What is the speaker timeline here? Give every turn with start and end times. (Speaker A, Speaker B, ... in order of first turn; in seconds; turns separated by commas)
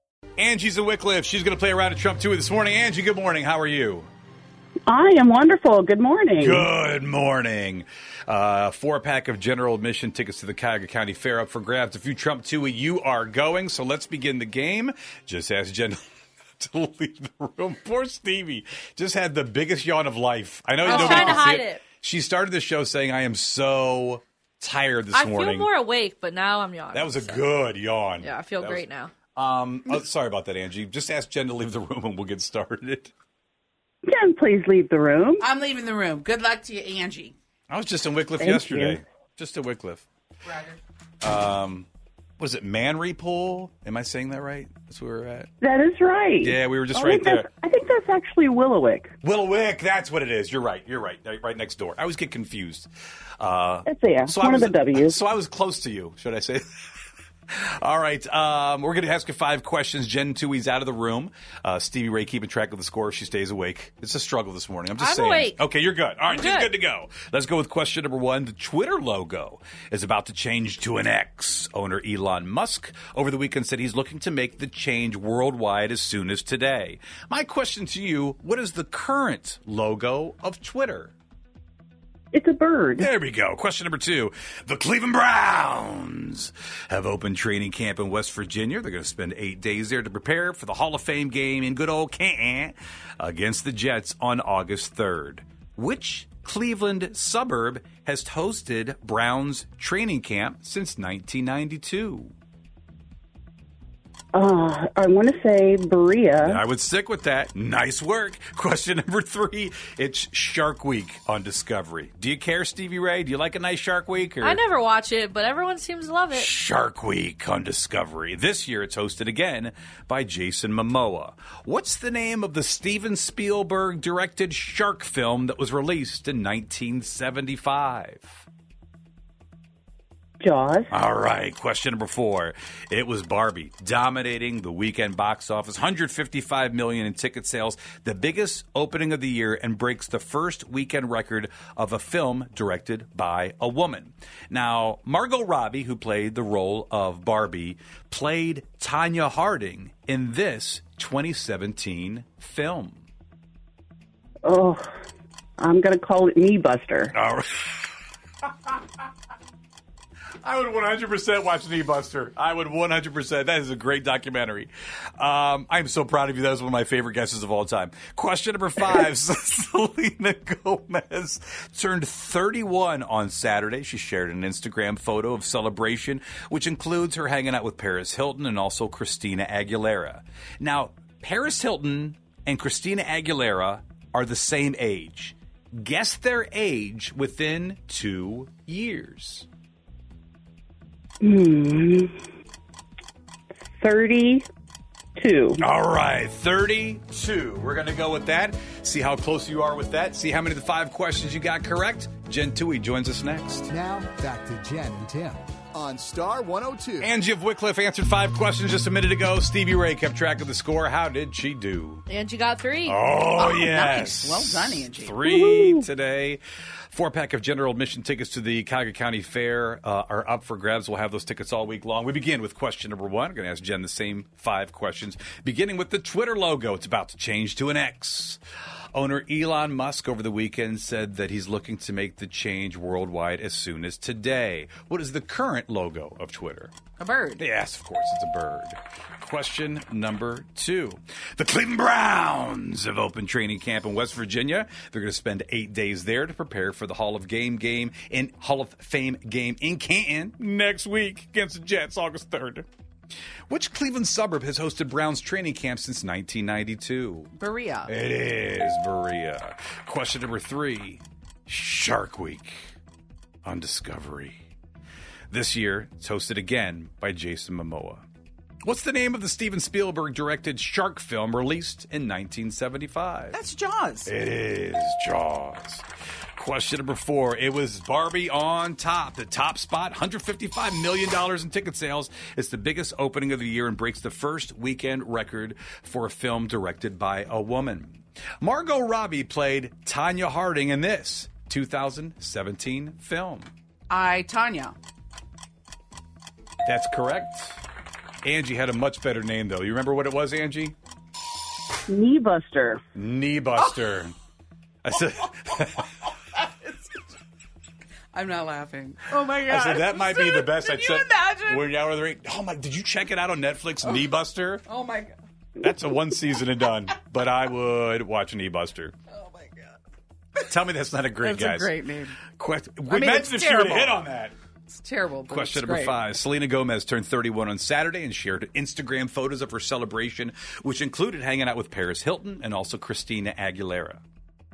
Speaker A: 0.4-4.1, Speaker B: 4.9-6.7, Speaker A: 6.4-16.0, Speaker A: 16.6-25.7, Speaker C: 20.8-21.8, Speaker C: 25.1-27.5, Speaker A: 26.9-33.1, Speaker C: 28.2-29.1, Speaker B: 34.0-35.4, Speaker D: 35.5-37.4, Speaker A: 37.7-40.0, Speaker B: 38.4-39.0, Speaker D: 40.5-40.8, Speaker A: 41.2-41.9, Speaker A: 42.4-45.5, Speaker B: 45.6-49.1, Speaker A: 46.4-47.5, Speaker A: 49.2-52.9, Speaker A: 53.4-56.6, Speaker B: 53.9-55.2, Speaker A: 57.5-81.1, Speaker C: 65.0-65.6, Speaker C: 66.3-66.7, Speaker B: 82.3-83.1, Speaker A: 83.0-102.3, Speaker B: 104.3-106.6, Speaker A: 106.4-114.6, Speaker C: 114.4-116.5, Speaker A: 116.3-128.2, Speaker B: 130.4-130.9, Speaker A: 130.9-153.0, Speaker B: 154.4-154.9, Speaker B: 155.6-157.1, Speaker A: 157.1-157.9, Speaker A: 160.4-189.5, Speaker B: 191.2-192.1, Speaker B: 193.8-194.4, Speaker B: 195.2-195.6, Speaker A: 195.6-203.7, Speaker E: 203.7-207.1, Speaker A: 207.0-212.1, Speaker C: 212.1-213.0, Speaker A: 212.9-228.4, Speaker D: 213.4-215.1, Speaker B: 215.2-215.9, Speaker A: 228.9-236.7, Speaker D: 237.0-237.4, Speaker A: 237.4-252.7, Speaker A: 253.5-257.3, Speaker D: 257.4-257.9, Speaker A: 257.9-262.6, Speaker A: 263.4-264.4, Speaker A: 265.3-268.0, Speaker A: 268.6-273.4, Speaker D: 273.3-274.0, Speaker A: 274.0-275.9, Speaker A: 276.4-293.5, Speaker D: 293.9-294.8, Speaker A: 296.7-297.6, Speaker A: 298.2-300.8, Speaker B: 301.9-302.8, Speaker A: 303.0-304.1, Speaker A: 304.8-305.9, Speaker D: 308.1-311.6, Speaker A: 309.5-314.6, Speaker D: 314.7-315.1, Speaker A: 315.6-318.9, Speaker D: 319.1-319.7, Speaker A: 320.5-321.8, Speaker D: 321.2-322.1, Speaker A: 322.3-324.3, Speaker D: 322.9-324.0, Speaker D: 324.7-325.9, Speaker A: 325.3-334.0